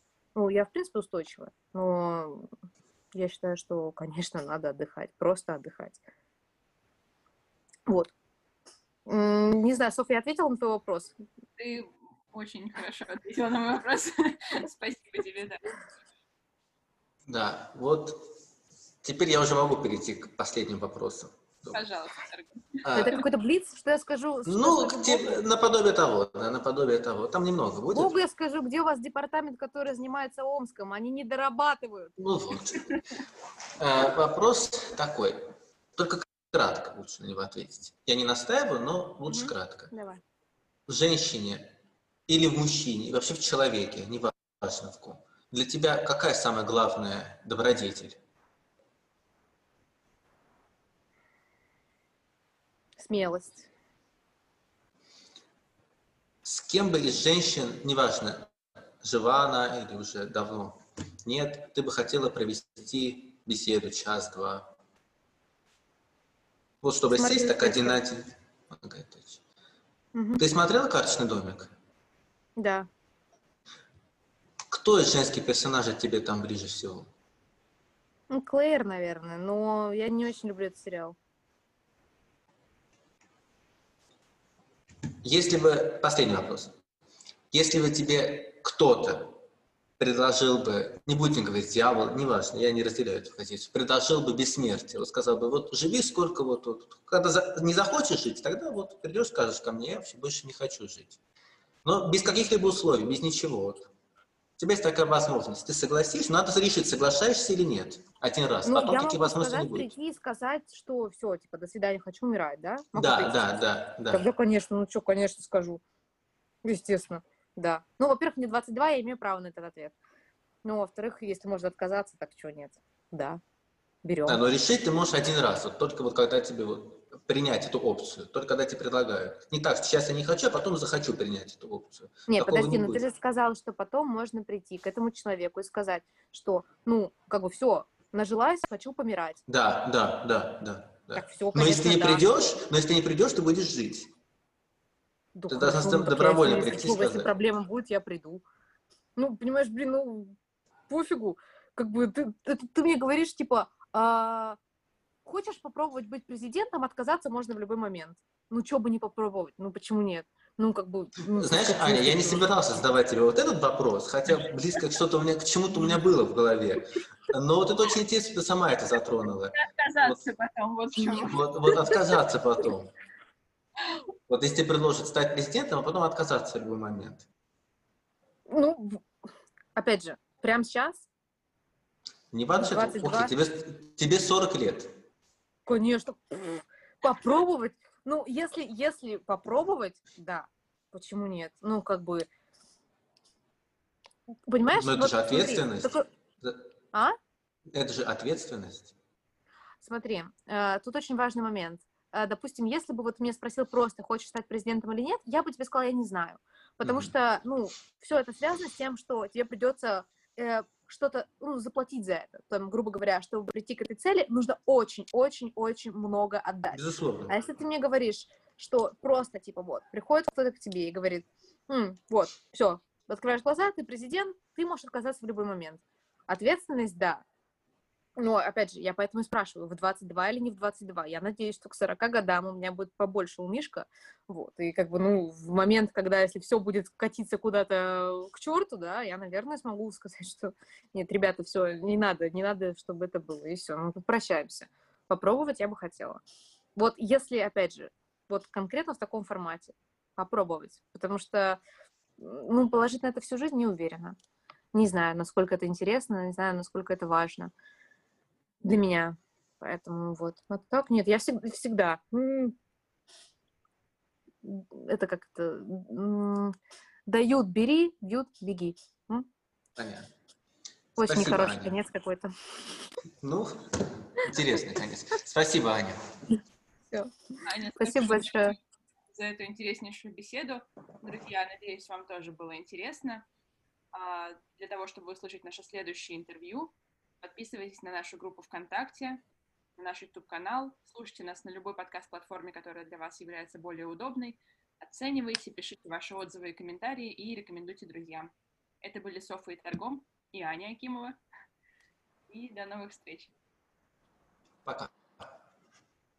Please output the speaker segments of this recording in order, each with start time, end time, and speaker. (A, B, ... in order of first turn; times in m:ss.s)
0:00.4-0:02.5 A
0:03.1-0:06.0 A
0:07.9-0:08.1 A
0:09.1-0:11.2 A
0:11.6-0:15.7 B
0:17.3-0:18.2 C
0:19.0-0:21.8 C
0:21.7-0:22.8 B
0:22.8-0:23.2 C
0:23.0-0:25.4 A
0:24.5-0:28.1 C
0:27.9-0:32.2 A
0:32.2-0:32.9 C
0:33.8-0:39.9 C
0:39.3-0:40.2 A
0:40.9-0:41.7 C
0:42.3-0:48.2 C
0:53.0-0:53.7 A
0:56.4-0:58.5 C
0:59.0-1:04.7 C
1:06.8-1:09.4 C
1:07.1-1:08.0 A
1:10.1-1:10.4 A
1:10.4-1:11.7 C
1:12.6-1:12.9 A
1:14.7-1:17.1 C
1:18.3-1:21.2 A
1:25.2-1:26.8 C
1:27.5-1:29.3 C
1:30.0-1:41.2 C
1:41.8-1:43.9 C
1:44.6-1:49.9 C
1:48.6-1:55.8 A
1:53.0-1:54.2 C
1:56.6-2:00.0 A
2:00.6-2:03.4 A
2:04.0-2:04.4 A
2:04.3-2:13.0 C
2:12.3-2:19.4 A
2:19.5-2:24.1 C
2:21.2-2:22.2 A
2:25.4-2:28.4 A
2:25.5-2:27.3 C
2:29.2-2:30.4 A
2:30.9-2:34.6 A
2:35.2-2:42.5 A
2:41.3-2:50.2 C
2:49.5-2:51.9 B
2:51.1-2:52.9 C
2:54.3-2:57.3 C
2:58.5-2:59.0 A
2:59.8-3:01.1 A
3:02.3-3:04.9 C
3:02.6-3:03.3 A
3:05.7-3:12.3 A
3:14.5-3:16.0 A
3:14.7-3:16.6 C
3:17.7-3:18.9 C
3:19.8-3:47.2 A
3:26.8-3:27.1 C
3:36.7-3:37.4 C
3:48.2-4:06.2 A
4:06.8-4:11.6 A
4:12.2-4:14.2 A
4:14.7-4:17.5 A
4:18.6-4:22.6 A
4:24.4-4:26.6 A
4:27.1-4:29.3 A
4:29.8-4:30.1 C
4:31.0-4:31.8 C
4:31.0-4:32.3 A
4:33.2-4:33.6 C
4:34.1-4:36.0 C
4:37.4-4:38.6 B
4:37.8-4:38.6 A
4:39.1-4:43.2 B
4:43.9-4:49.2 B
4:49.8-5:01.2 B
5:02.3-5:03.3 B
5:04.6-5:05.2 C